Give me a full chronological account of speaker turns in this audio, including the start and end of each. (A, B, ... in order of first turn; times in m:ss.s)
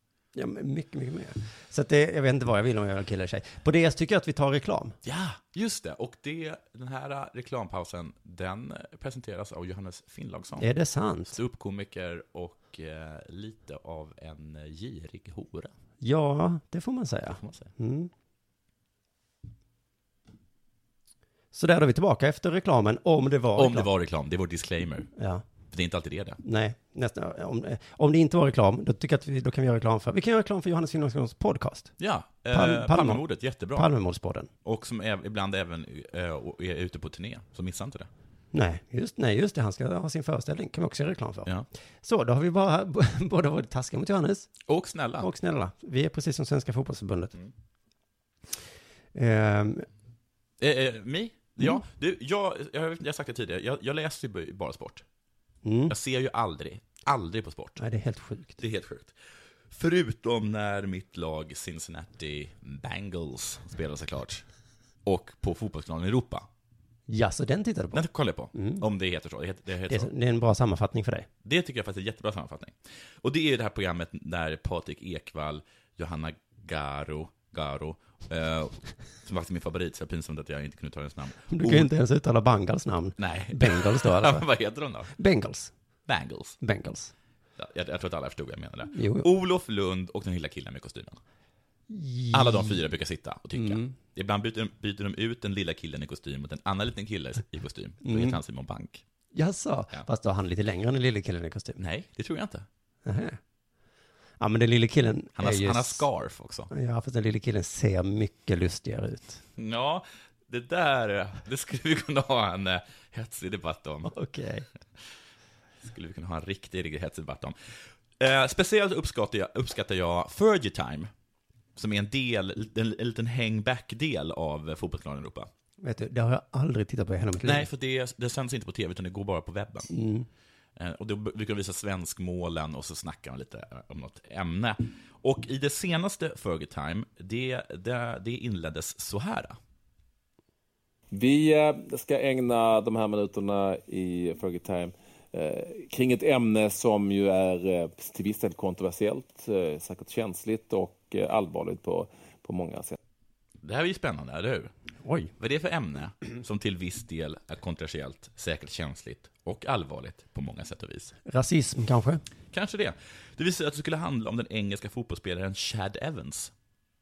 0:00.3-0:05.0 A
0:05.0-0:10.7 B
0:10.6-0:11.4 A
0:11.3-0:15.7 B
0:16.0-0:18.1 A
0:17.4-0:17.7 B
0:21.5-0:23.9 A
0:23.6-0:25.1 B
0:25.2-0:25.4 A
0:25.7-0:26.4 B
0:26.4-0:31.9 A
0:32.0-0:33.9 B
0:32.5-0:34.5 A
0:34.6-0:38.1 B
0:38.5-0:41.5 A
0:42.0-0:44.5 A
0:44.7-0:45.3 B
0:45.2-0:47.3 A
0:49.1-0:49.8 A
0:50.6-0:55.0 B
0:55.6-0:55.9 A
0:55.9-0:57.8 B
0:57.8-0:58.6 A
0:58.6-0:59.1 B
0:59.7-1:04.4 B
1:05.0-1:06.5 B
1:07.1-1:08.0 A
1:07.9-1:10.1 B
1:08.5-1:08.8 A
1:09.9-1:11.3 A
1:11.4-1:21.9 B
1:21.5-1:24.4 A
1:23.2-1:25.1 B
1:25.2-1:25.7 A
1:26.1-1:26.6 B
1:26.6-1:27.1 A
1:27.6-1:31.2 B
1:28.9-1:29.3 A
1:31.9-1:32.8 A
1:32.3-1:39.0 B
1:33.5-1:33.9 A
1:38.0-1:38.4 A
1:39.3-1:41.8 A
1:41.8-1:42.6 B
1:43.0-1:43.4 A
1:44.4-1:46.0 A
1:45.4-1:46.7 B
1:46.7-1:49.4 A
1:49.6-1:54.1 B
1:54.0-1:54.6 A
1:55.8-1:57.5 B
1:58.2-2:01.1 B
2:01.8-2:05.5 B
2:05.8-2:07.7 A
2:07.4-2:09.9 B
2:09.9-2:10.3 A
2:10.8-2:19.6 B
2:21.1-2:33.0 C
2:33.6-2:34.7 B
2:35.0-2:35.3 A
2:35.4-2:41.1 B
2:41.3-2:42.2 A
2:42.5-2:46.5 B